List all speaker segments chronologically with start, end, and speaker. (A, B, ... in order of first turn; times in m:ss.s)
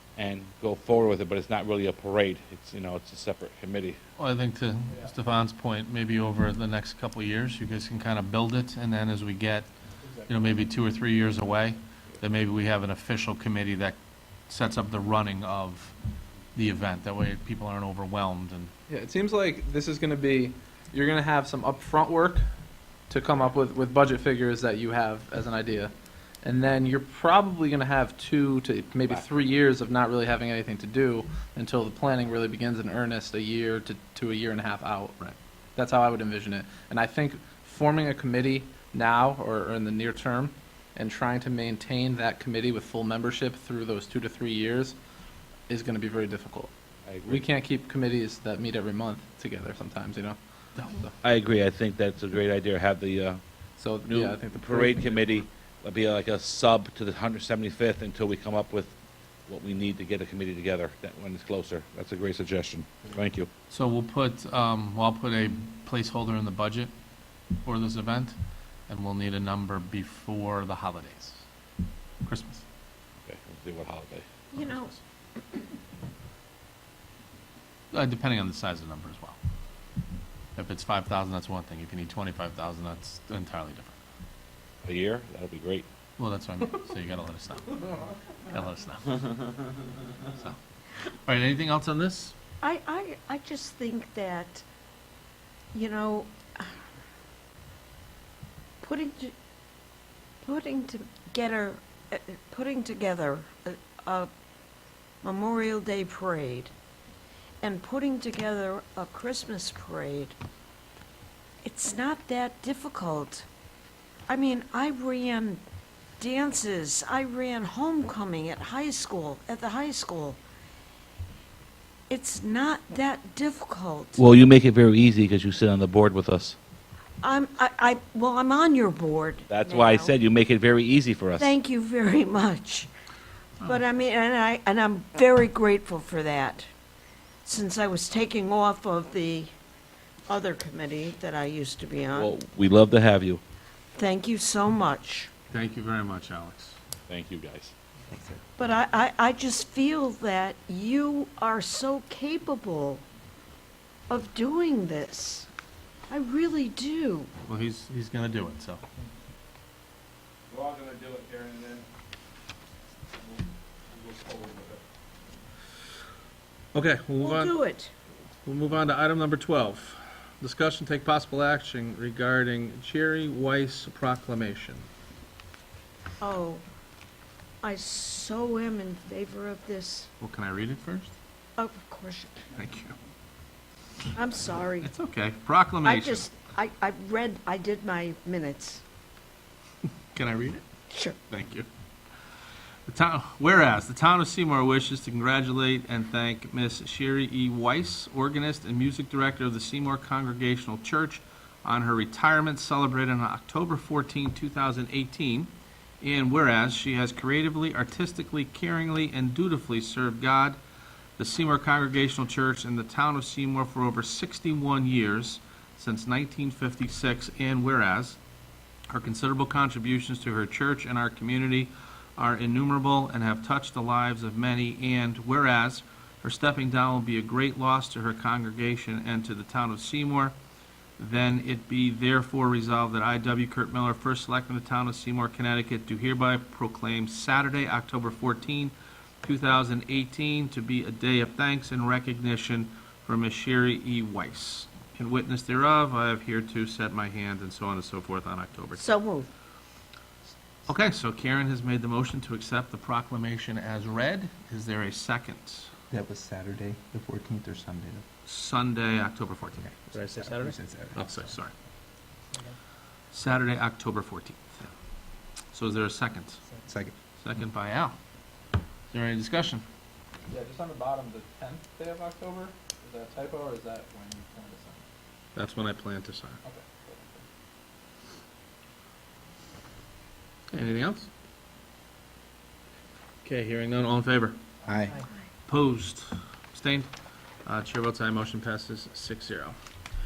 0:00.2-0:04.0 A
0:04.2-0:09.7 B
0:10.0-0:10.4 C
0:10.3-0:14.0 B
0:14.5-0:15.9 B
0:16.6-0:18.7 B
0:18.9-0:22.4 C
0:23.1-0:25.9 C
0:26.4-0:45.0 C
0:45.7-0:46.7 C
0:47.1-0:47.5 A
0:47.3-0:50.4 C
0:50.8-0:51.1 B
0:51.2-0:53.4 A
0:53.8-0:55.4 C
0:54.0-0:59.0 A
0:59.5-1:03.5 A
1:03.7-1:06.9 B
1:07.6-1:08.4 B
1:08.9-1:11.4 B
1:12.2-1:12.6 B
1:13.3-1:14.3 A
1:14.5-1:14.9 D
1:14.6-1:14.9 B
1:17.9-1:19.4 B
1:20.6-1:24.0 B
1:24.8-1:25.9 A
1:26.2-1:29.5 B
1:30.3-1:30.6 B
1:31.2-1:32.3 B
1:32.6-1:34.6 D
1:35.7-1:36.8 D
1:38.8-1:39.3 D
1:40.4-1:44.3 D
1:45.2-1:46.7 D
1:47.6-1:50.4 D
1:51.6-1:53.5 D
1:54.3-1:55.6 D
1:56.2-2:00.4 D
2:02.1-2:04.2 D
2:04.2-2:06.6 A
2:07.2-2:10.1 D
2:09.5-2:11.5 A
2:11.4-2:12.9 D
2:13.6-2:16.7 D
2:17.4-2:19.5 D
2:20.3-2:22.3 D
2:22.2-2:23.4 A
2:24.0-2:25.3 D
2:25.5-2:26.8 B
2:27.1-2:27.7 A
2:28.1-2:28.4 E
2:28.6-2:33.0 D
2:34.1-2:35.5 D
2:36.1-2:37.3 D
2:37.5-2:38.8 B
2:40.5-2:41.8 A
2:43.9-2:44.8 A
2:46.7-2:47.5 B
2:47.2-2:47.9 D
2:48.4-2:54.9 B
2:56.2-2:56.6 D
2:57.6-3:00.1 D
3:00.2-3:01.1 B
3:01.6-3:02.5 D
3:02.5-3:03.0 B
3:04.1-3:04.9 D
3:04.8-3:06.3 B
3:05.8-3:08.8 D
3:10.1-3:10.6 B
3:10.9-3:11.2 D
3:11.3-3:11.7 B
3:12.9-3:30.6 B
3:31.2-3:38.2 B
3:38.9-3:50.4 B
3:51.0-4:08.8 B
4:08.8-4:09.3 D
4:10.7-4:15.7 B
4:15.9-4:18.0 E
4:18.3-4:21.5 B
4:20.0-4:21.1 E
4:23.1-4:24.7 B
4:25.5-4:26.4 B
4:26.6-4:27.0 E
4:27.2-4:28.0 B
4:28.9-4:29.6 B
4:30.3-4:34.8 C
4:35.4-4:36.4 B
4:36.4-4:37.2 C
4:40.5-4:41.1 B
4:43.2-4:44.4 B
4:44.6-4:45.0 E
4:45.5-4:46.9 B
4:47.5-4:49.6 B